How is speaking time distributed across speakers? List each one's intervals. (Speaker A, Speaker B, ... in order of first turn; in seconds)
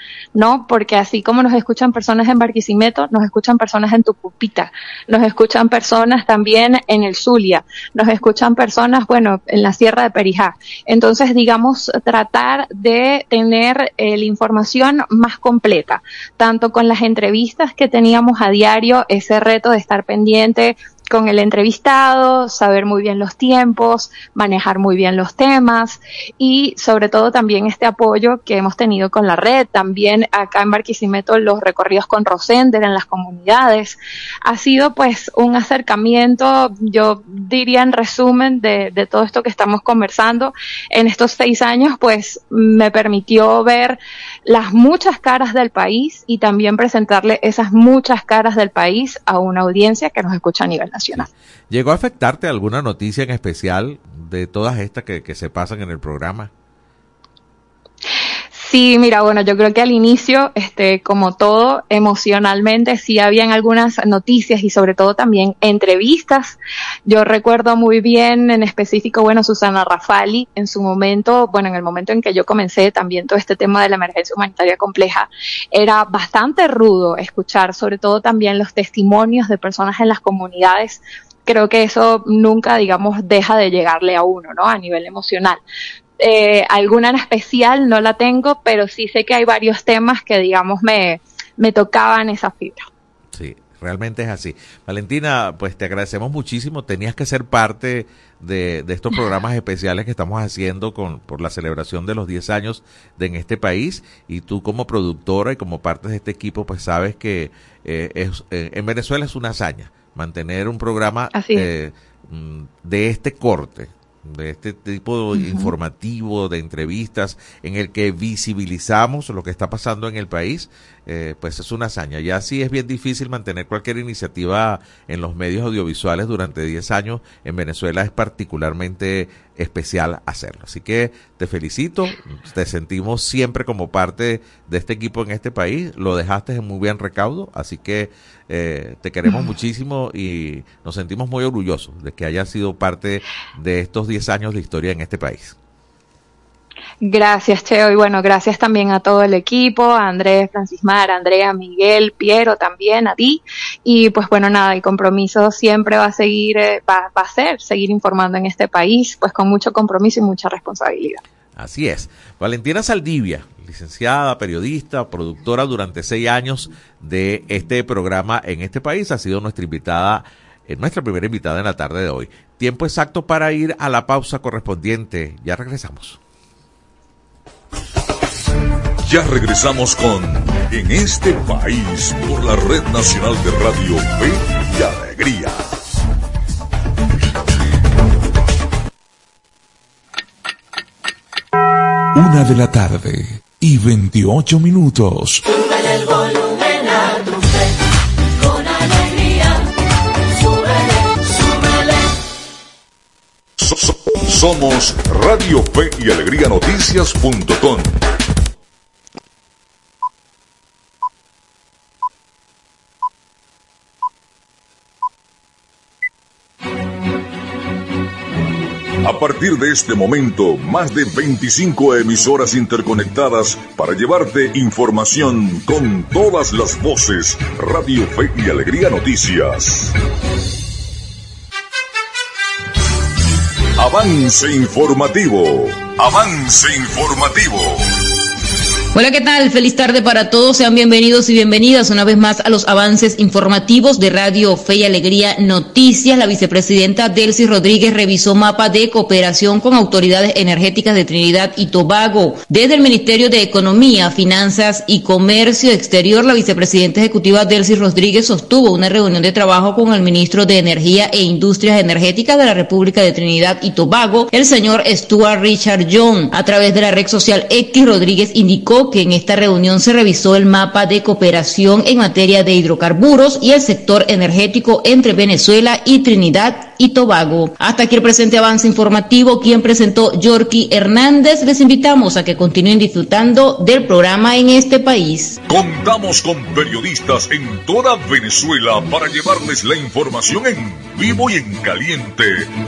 Speaker A: 0.3-51.3, 58.5-85.6, 86.2-92.9, 111.3-111.7, 115.3-115.7, 147.0-161.2
Speaker B: 51.7-56.5, 93.3-145.5, 161.6-176.2
Speaker C: 179.0-185.7, 203.6-208.0, 219.0-229.9, 233.8-237.9, 285.5-292.5
Speaker D: 192.1-195.4
Speaker E: 238.9-285.4